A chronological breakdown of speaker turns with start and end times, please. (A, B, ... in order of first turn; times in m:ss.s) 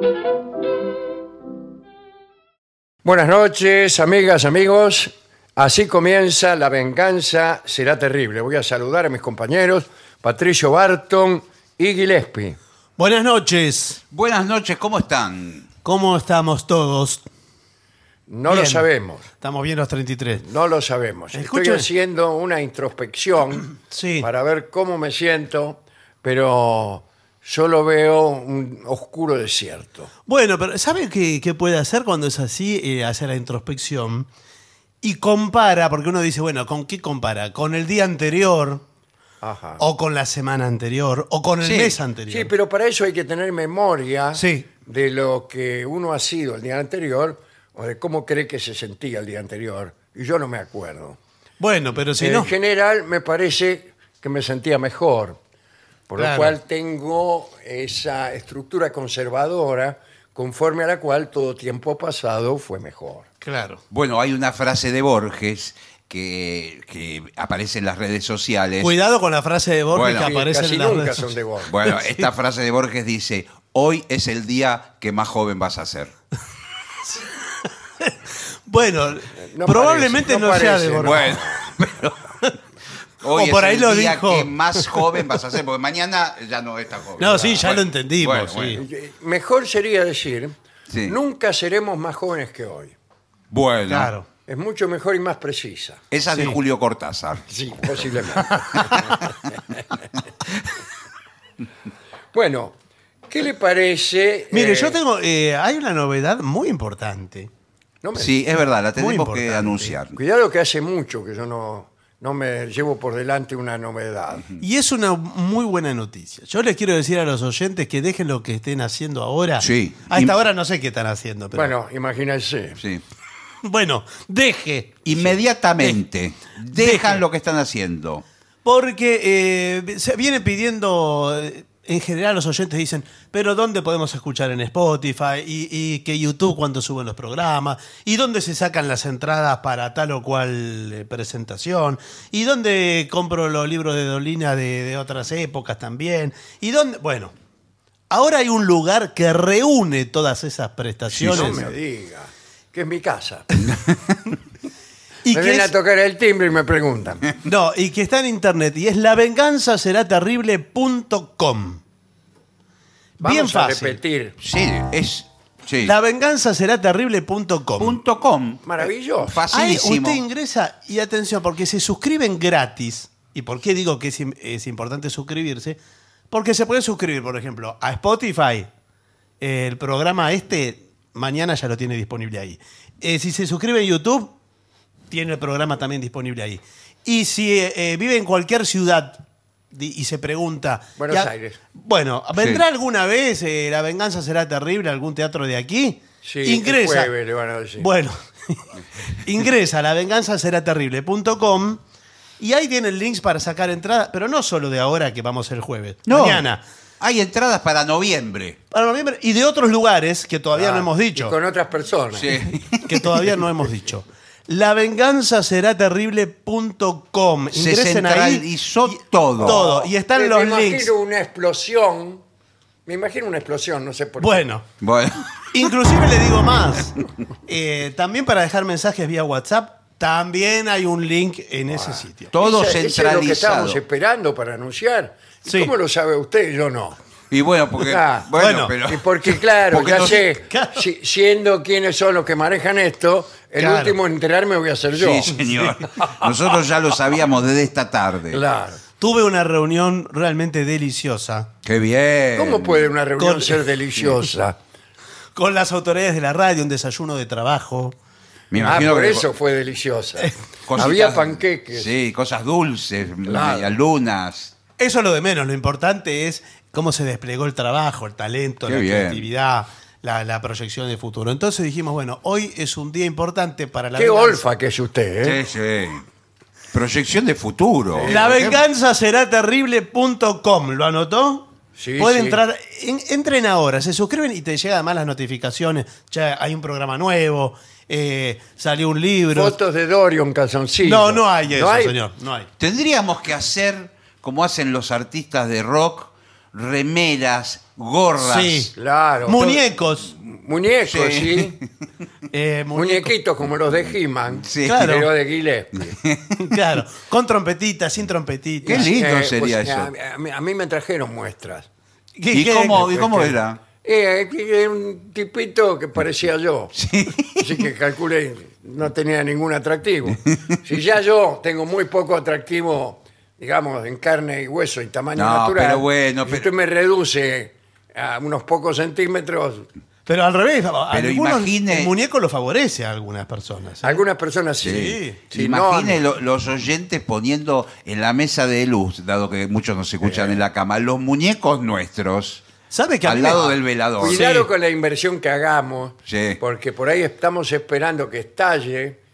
0:03.0-0:12.6 A
0:13.0-0:14.0 B
0:14.1-0:15.6 C
0:15.8-0:17.2 B
0:18.3-0:19.3 A
0:18.5-0:18.8 B
0:19.4-0:20.4 B
0:20.4-0:30.1 A
0:21.3-0:21.9 B
0:23.9-0:24.3 B
0:30.3-0:34.3 B
0:35.0-0:38.8 B
0:39.4-0:39.8 A
0:39.8-0:42.5 B
0:41.6-0:42.0 C
0:42.3-0:51.2 A
0:44.4-0:44.7 B
0:51.6-0:52.5 B
0:52.2-0:55.4 A
0:56.1-1:03.3 A
0:56.2-0:56.6 B
1:03.4-1:03.8 B
1:03.9-1:08.9 C
1:08.8-1:11.3 B
1:09.9-1:10.3 C
1:10.1-1:11.8 A
1:11.7-1:16.1 C
1:17.1-1:21.4 B
1:19.4-1:21.8 A
1:21.0-1:22.2 C
1:23.2-1:28.8 C
1:23.3-1:25.2 B
1:27.2-1:28.8 B
1:27.3-1:27.6 A
1:28.8-1:32.9 A
1:30.9-1:31.2 C
1:33.5-1:34.1 C
1:33.9-1:34.2 B
1:34.5-1:36.0 A
1:36.1-1:38.0 C
1:36.3-1:36.6 B
1:37.5-1:39.8 A
1:38.8-1:39.2 B
1:42.3-1:42.7 A
1:43.3-1:45.0 A
1:44.5-1:47.5 B
1:48.0-1:48.4 A
1:48.1-1:50.2 C
1:48.9-1:49.9 B
1:50.1-1:54.5 A
1:54.6-2:01.7 B
1:59.6-2:00.4 C
2:01.5-2:02.8 A
2:03.6-2:06.0 B
2:05.0-2:08.2 C
2:06.7-2:07.2 B
2:08.6-2:27.3 B
2:28.1-2:31.6 B
2:31.1-2:31.7 C
2:31.2-2:33.4 A
2:33.6-2:34.2 C
2:35.2-2:35.7 B
2:35.3-2:37.2 A
2:37.4-2:41.8 B
2:43.2-2:44.0 B
2:43.2-2:44.4 A
2:44.4-2:45.9 C
2:45.8-2:48.0 B
2:47.8-2:50.2 C
2:48.6-2:49.5 A
2:49.5-2:55.8 B
2:56.3-2:58.7 B
2:59.4-3:04.3 B
3:05.1-3:09.2 B
3:09.7-3:17.1 B
3:11.0-3:11.6 A
3:12.4-3:12.6 C
3:16.2-3:17.9 A
3:17.8-3:21.8 B
3:22.4-3:26.6 B
3:26.0-3:26.4 C
3:27.0-3:28.6 C
3:28.7-3:31.3 B
3:30.5-3:32.5 A
3:32.1-3:33.2 C
3:32.8-3:40.9 B
3:37.5-3:39.6 C
3:39.4-3:42.2 A
3:42.8-3:44.4 A
3:44.2-3:44.6 B
3:44.8-3:45.7 C
3:45.5-3:46.9 B
3:47.5-3:52.3 B
3:51.7-3:57.0 A
3:52.3-3:53.8 C
3:55.4-3:55.7 B
3:57.3-4:00.3 C
3:57.8-3:58.3 A
3:58.4-3:58.7 B
3:58.8-4:05.3 A
4:00.5-4:00.8 B
4:03.6-4:04.0 B
4:04.9-4:08.4 C
4:08.3-4:08.8 A
4:09.0-4:11.5 B
4:11.6-4:12.9 C
4:12.3-4:14.6 A
4:13.2-4:13.6 B
4:15.4-4:17.9 B
4:18.5-4:19.3 C
4:18.6-4:18.8 B
4:18.6-4:21.9 A
4:20.6-4:24.5 C
4:23.2-4:23.7 A
4:24.8-4:34.4 B
4:28.6-4:29.2 C
4:34.0-4:35.4 A
4:35.2-4:36.0 C
4:36.7-4:38.6 C
4:38.0-4:38.5 A
4:38.0-4:49.6 B
4:41.8-4:42.4 A
4:49.3-4:51.9 A
4:50.8-4:52.5 B
4:52.6-4:58.7 C
4:58.2-4:58.7 B
4:58.7-5:01.6 A
4:59.3-5:00.1 B
5:00.8-5:01.6 C
5:02.3-5:03.1 B
5:02.7-5:06.0 A
5:04.4-5:04.9 C
5:04.6-5:05.1 B
5:05.8-5:06.4 C
5:06.4-5:08.9 B
5:08.6-5:11.7 A
5:08.6-5:09.9 C
5:12.2-5:13.3 B
5:12.3-5:13.6 C
5:13.8-5:16.7 A
5:16.7-5:17.6 C
5:17.3-5:29.7 A
5:25.1-5:26.5 C
5:30.1-5:34.0 B
5:30.9-5:31.9 C
5:33.8-5:36.0 A
5:34.6-5:42.4 C
5:34.6-5:35.2 B
5:40.0-5:40.4 A
5:42.7-5:43.5 B
5:43.0-5:44.5 C
5:44.0-5:49.0 A
5:46.1-5:46.4 C